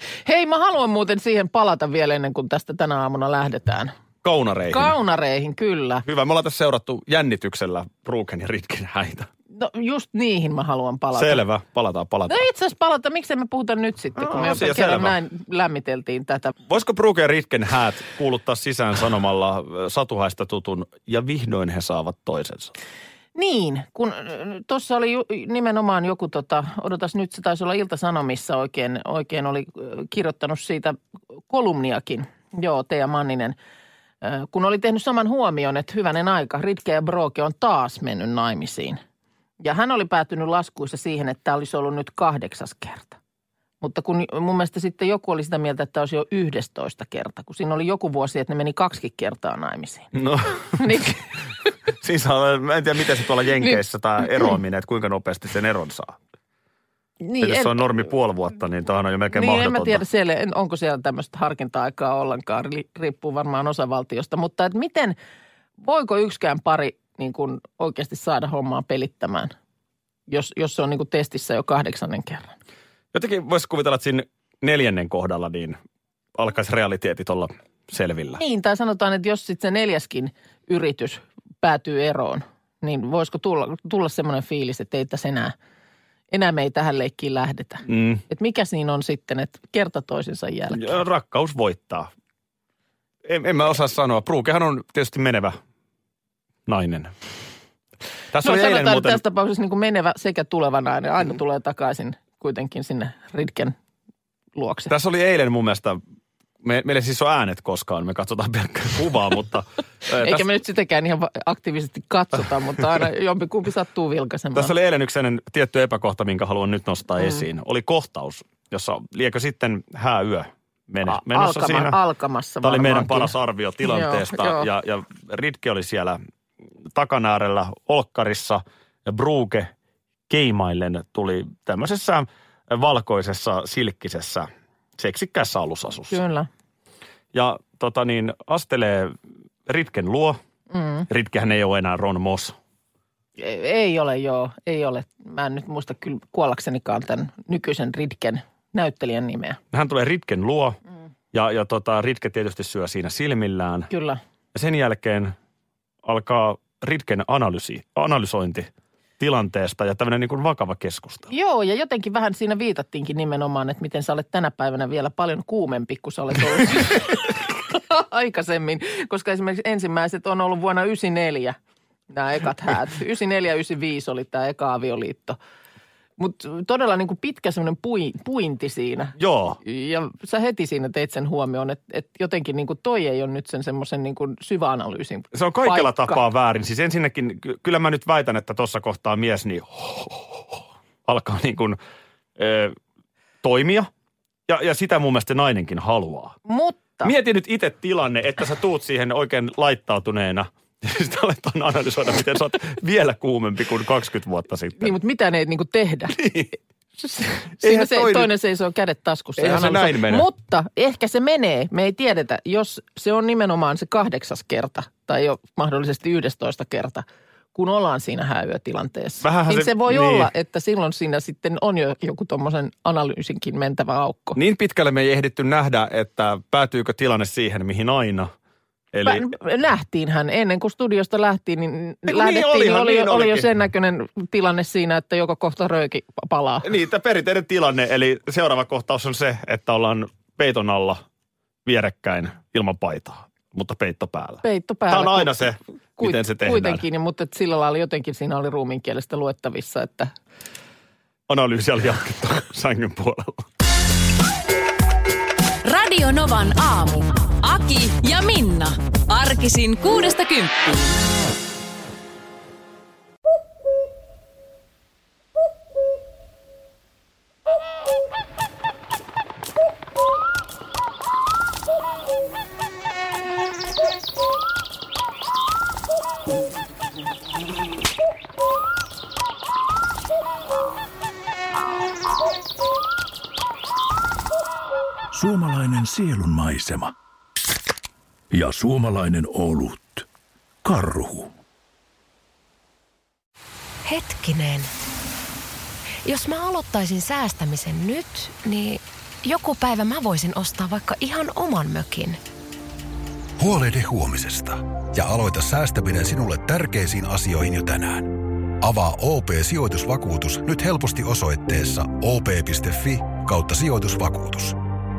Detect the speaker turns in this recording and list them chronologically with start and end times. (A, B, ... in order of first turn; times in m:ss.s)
0:00.3-0:03.9 A
0:04.2-0:04.9 B
0:04.7-0:06.0 A
0:06.1-0:09.3 B
0:09.5-0:11.4 A
0:11.1-0:12.4 B
0:12.3-0:16.5 A
0:14.2-0:15.1 B
0:16.7-0:22.7 B
0:23.4-0:31.0 A
0:31.5-0:33.6 A
0:34.2-0:39.0 A
0:39.6-0:43.2 A
0:43.8-0:50.1 A
0:50.1-0:50.8 B
0:50.7-0:51.2 A
0:52.0-0:56.2 B
0:57.2-0:57.8 A
0:57.4-1:00.0 B
0:59.3-1:05.2 A
1:05.8-1:09.5 A
1:10.3-1:12.5 A
1:13.1-1:15.8 B
1:16.4-1:18.4 B
1:18.4-1:25.5 A
1:26.3-1:31.0 A
1:27.9-1:28.2 B
1:30.7-1:32.1 B
1:33.2-1:35.6 B
1:36.7-1:37.1 B
1:38.3-1:39.2 B
1:38.4-1:43.8 A
1:44.6-1:44.9 A
1:44.9-1:46.0 B
1:46.6-1:50.5 B
1:50.1-1:54.7 A
1:54.5-2:02.0 B
1:57.2-1:57.4 A
2:01.1-2:03.3 A
2:02.6-2:06.2 B
2:03.9-2:04.7 A
2:06.9-2:09.7 B
2:10.3-2:16.2 B
2:16.1-2:16.5 A
2:17.3-2:19.1 B
2:19.7-2:20.4 B
2:20.7-2:21.1 A
2:21.1-2:22.6 B
2:23.4-2:29.6 A
2:29.7-2:30.8 B
2:31.3-2:33.9 B
2:33.9-2:34.2 A
2:34.5-2:35.3 B
2:36.0-2:41.3 B
2:41.3-2:51.6 A
2:52.1-2:55.4 A
2:56.2-3:06.2 A
2:59.2-2:59.6 B
3:05.3-3:10.4 B
3:11.1-3:11.8 B
3:12.4-3:12.8 B
3:13.4-3:13.9 B
3:14.5-3:16.4 B
3:16.4-3:17.1 A
3:17.0-3:24.9 B
3:24.8-3:26.3 A
3:26.2-3:26.5 B
3:27.0-3:44.4 A
3:27.6-3:28.3 B
3:29.4-3:30.3 B
3:39.2-3:40.3 B
3:44.4-3:48.3 B
3:48.9-3:49.3 B
3:49.0-3:56.7 A
3:52.1-3:53.5 B
3:56.6-4:01.0 B
4:01.6-4:06.8 B
4:04.4-4:10.1 A
4:11.3-4:13.4 B
4:15.6-4:20.9 C
4:45.1-4:46.9 D
4:48.3-4:50.1 D
4:50.6-4:51.3 D
4:53.8-4:54.7 E
4:56.0-5:02.2 E
5:03.4-5:14.6 F